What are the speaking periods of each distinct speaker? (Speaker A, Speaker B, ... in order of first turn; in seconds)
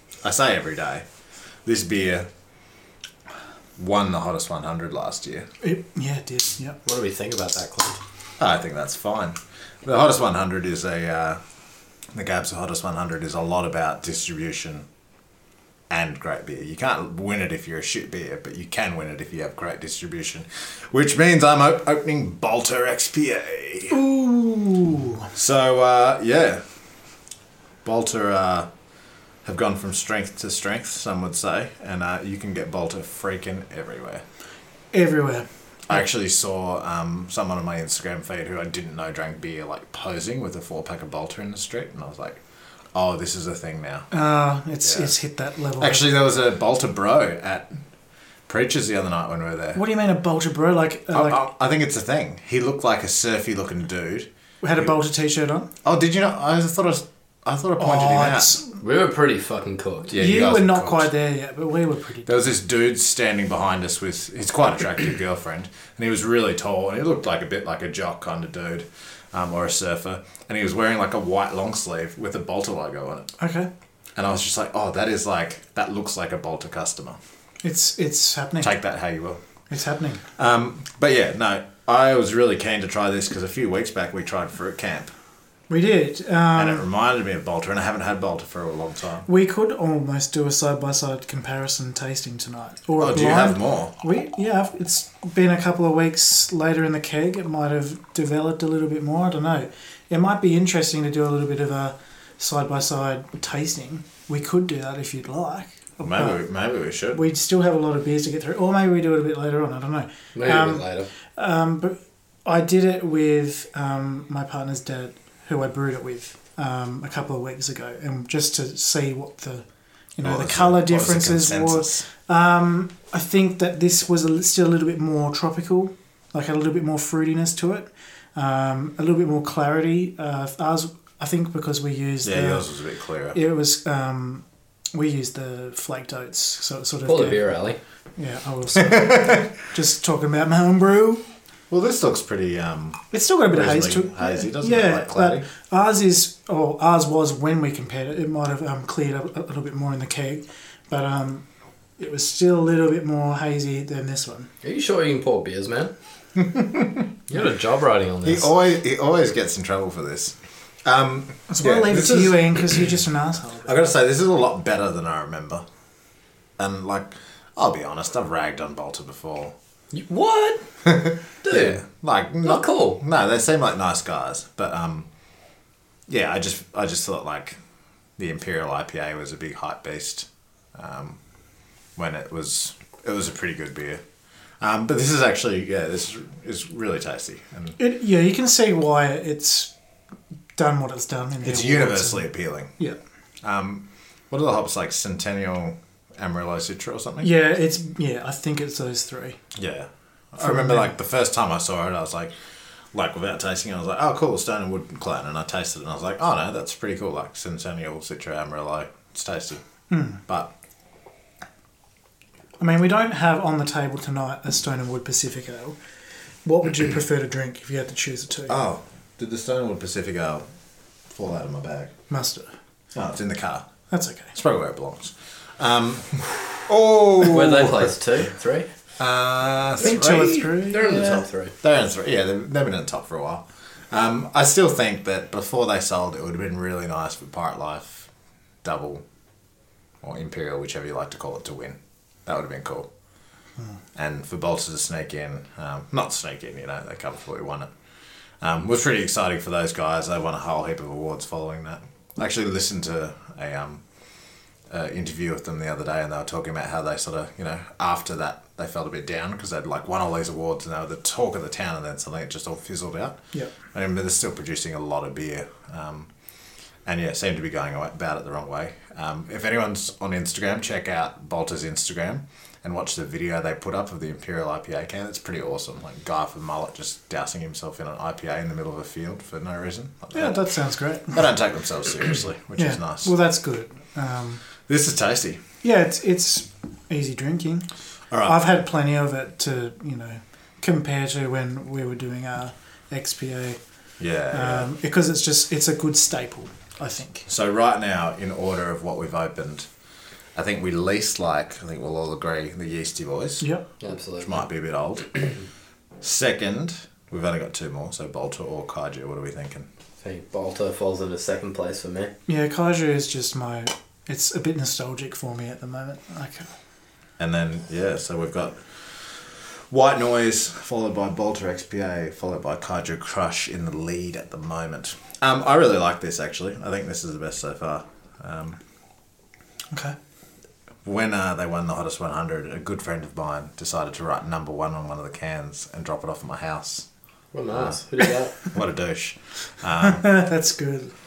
Speaker A: 0.2-1.1, 1.6-2.3, 3.8-5.5, 8.4-11.4, 12.1-14.9, 15.9-24.0, 25.4-26.6, 27.8-28.7, 29.4-34.2, 35.9-42.4, 42.9-44.1, 44.8-45.1, 45.8-47.8, 48.5-49.8, 51.1-54.3, 55.8-58.6, 60.1-61.1, 62.3-73.3, 74.2-77.2, 78.6-79.4, 80.4-85.1, 86.5-89.3, 93.0-93.9, 106.0-107.2, 120.2-122.1, 132.2-133.4, 138.9-139.3, 141.7-145.5, 156.4-157.1, 158.2-162.9, 163.7-165.6, 166.6-169.6, 170.8-175.1, 176.1-177.6, 178.2-181.2, 182.0-184.0, 184.6-187.8, 191.4-192.7, 193.4-197.3, 199.5-202.3, 202.9-209.6, 210.3-210.5, 218.5-220.4, 221.1-221.9, 222.9-223.7, 224.3-227.9, 229.0-230.8, 231.6-238.1, 238.6-239.0, 240.0-242.9, 244.0-247.7, 248.4-253.8, 254.7-266.1, 266.9-280.5, 281.1-283.1, 284.7-285.4, 288.1-288.4, 294.0-294.7, 297.3-299.7, 300.4-303.4, 304.2-305.3, 306.0-309.7, 317.2-328.6, 330.9-336.9, 337.5-337.8, 338.5-340.1
Speaker B: 5.6-6.8, 23.9-25.3, 34.9-36.0, 44.1-46.1, 49.8-51.5, 54.6-55.7, 57.8-58.8, 60.1-62.3, 73.4-73.7, 77.6-78.8, 79.7-80.2, 85.7-86.8, 89.3-106.4, 107.1-119.7, 120.2-132.7, 133.3-137.5, 138.2-141.2, 143.1-151.5, 152.0-154.5, 161.5-163.8, 187.8-189.7, 190.6-193.0, 197.2-199.4, 200.4-200.9, 209.9-210.2, 212.6-215.8, 216.4-218.6, 222.1-222.5, 223.9-224.3, 229.8-231.2, 280.1-281.3, 282.6-284.4, 285.6-287.7, 288.2-293.6, 294.3-297.3, 303.4-303.7, 312.3-316.5, 339.8-340.9
Speaker C: 6.8-8.0, 58.8-60.1, 110.3-111.1, 137.1-137.8, 154.6-155.9, 157.3-158.5, 169.9-170.7, 171.4-171.8, 172.4-173.0, 227.2-228.7, 230.7-231.5, 303.8-304.4, 310.0-312.1, 337.3-338.4